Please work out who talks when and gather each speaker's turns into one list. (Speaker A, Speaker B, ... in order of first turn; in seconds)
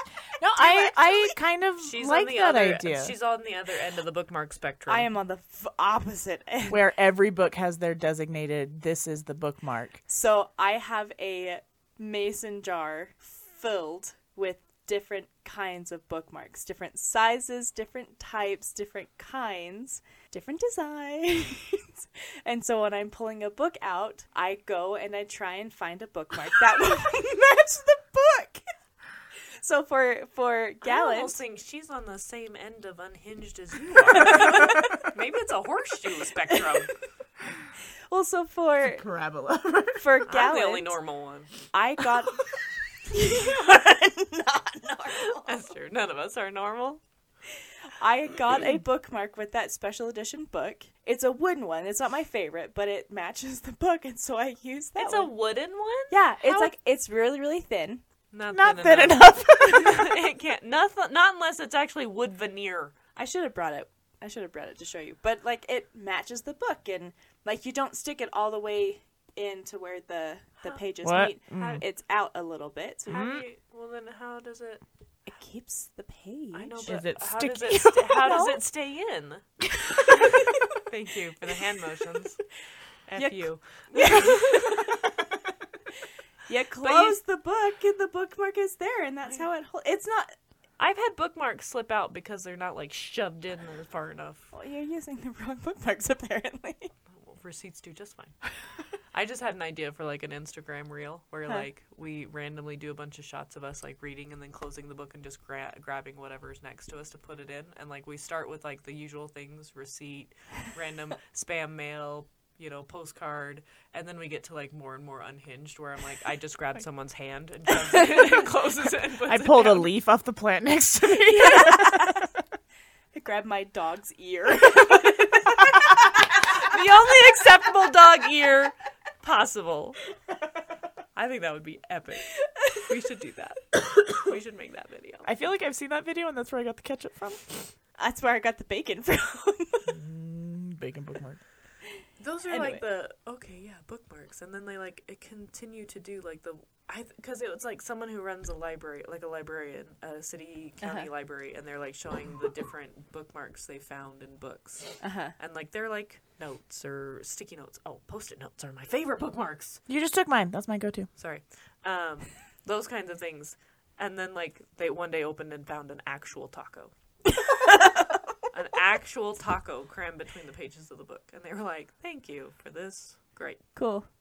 Speaker A: 0.4-3.1, 6.7-10.0, 38.8-40.0, 58.5-60.1, 71.0-71.8, 73.1-73.4, 76.8-77.9, 119.3-122.1, 135.2-137.7, 139.9-141.4, 142.5-142.8, 159.9-161.1
Speaker B: 0.5-1.3, 4.9-6.8, 10.1-28.6, 29.4-31.4, 34.1-34.9, 36.5-36.8, 38.1-39.0, 40.0-41.0, 41.7-42.4, 43.0-45.6, 48.0-55.3, 56.1-58.0, 63.1-73.2, 75.2-77.0, 77.7-78.6, 80.0-80.6, 83.2-85.2, 86.5-90.3, 94.5-96.9, 121.3-122.2, 123.1-126.0, 138.0-139.9, 150.8-151.1, 155.0-155.3, 167.6-167.9, 173.7-174.1
Speaker C: 1.8-5.1, 30.8-37.1, 40.3-41.7, 45.4-47.0, 55.0-56.7, 58.3-62.9, 71.5-71.8, 73.1-74.8, 76.5-79.6, 80.7-84.9, 86.8-87.2, 90.8-94.5, 97.1-119.9, 126.5-130.0, 131.1-135.3, 142.2-159.8, 161.2-166.9, 168.5-173.9